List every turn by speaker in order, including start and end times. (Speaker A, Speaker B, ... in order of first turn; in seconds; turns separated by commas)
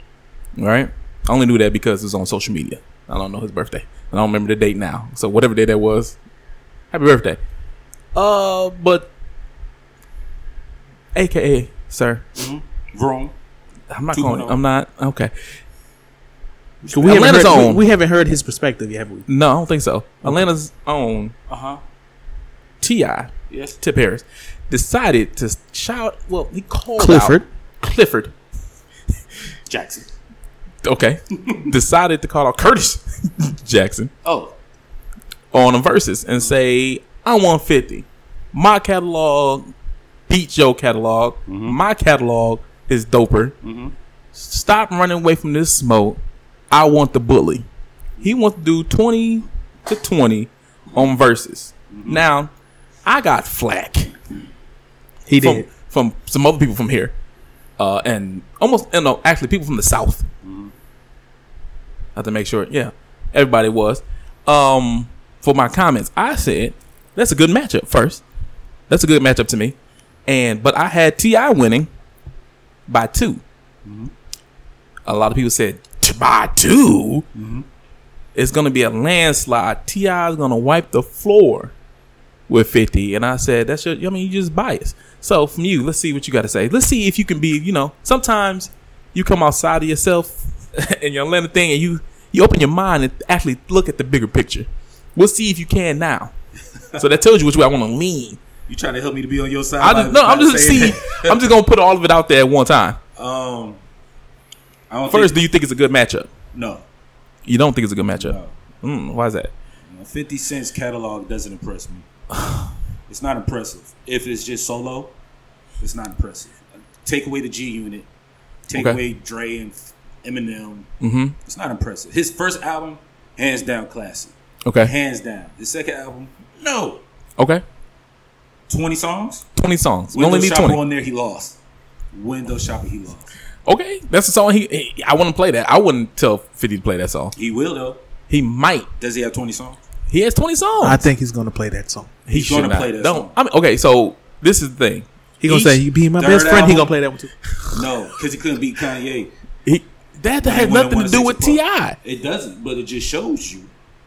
Speaker A: 0.6-6.2, Speaker A: 6.9-7.4, Speaker A: 8.1-9.1, Speaker A: 11.1-12.2, Speaker B: 12.3-13.3, Speaker A: 13.9-15.3, Speaker B: 14.1-14.6, Speaker B: 16.8-17.7, Speaker C: 16.9-19.3, Speaker A: 17.0-17.8, Speaker A: 19.3-21.3, Speaker B: 21.5-21.8, Speaker A: 22.8-28.3, Speaker B: 23.5-23.8, Speaker C: 27.0-27.4, Speaker B: 29.7-30.1, Speaker A: 30.8-34.1, Speaker B: 34.2-34.5, Speaker A: 35.5-39.7, Speaker A: 40.3-43.5, Speaker B: 41.5-41.8, Speaker B: 43.6-43.9, Speaker A: 44.3-47.6, Speaker A: 48.2-52.5, Speaker B: 51.9-52.2, Speaker A: 53.0-54.1, Speaker C: 55.2-55.7, Speaker A: 55.4-57.1, Speaker A: 57.8-60.2, Speaker B: 60.4-60.7, Speaker A: 62.1-68.2, Speaker A: 68.9-69.7, Speaker A: 70.3-71.9, Speaker A: 72.9-73.4, Speaker B: 73.8-74.1, Speaker A: 75.0-77.2, Speaker B: 77.3-77.7, Speaker A: 78.3-81.7, Speaker A: 82.5-96.3, Speaker A: 97.0-98.4, Speaker B: 98.7-101.4, Speaker A: 99.8-103.0, Speaker B: 103.2-103.8, Speaker B: 104.9-105.4, Speaker A: 105.1-106.3, Speaker B: 106.5-106.8, Speaker A: 107.4-109.5, Speaker B: 108.2-108.5, Speaker B: 109.9-112.0, Speaker A: 112.3-112.7, Speaker B: 113.1-115.1, Speaker B: 115.8-118.1, Speaker B: 118.7-120.9, Speaker A: 118.7-119.0, Speaker A: 121.0-121.3, Speaker B: 121.5-127.0, Speaker A: 124.6-124.9, Speaker A: 127.4-127.6, Speaker B: 128.7-129.4, Speaker A: 129.6-130.8, Speaker B: 130.1-131.6, Speaker B: 132.1-133.3, Speaker A: 133.7-137.3, Speaker B: 137.3-138.0, Speaker A: 138.3-138.9, Speaker B: 139.0-139.8, Speaker A: 140.1-141.0, Speaker C: 140.8-142.1, Speaker A: 142.3-145.8, Speaker B: 142.3-143.3, Speaker C: 145.4-147.3, Speaker B: 146.2-146.9, Speaker A: 147.5-147.8, Speaker B: 147.7-149.3, Speaker A: 149.6-152.0, Speaker B: 150.4-153.7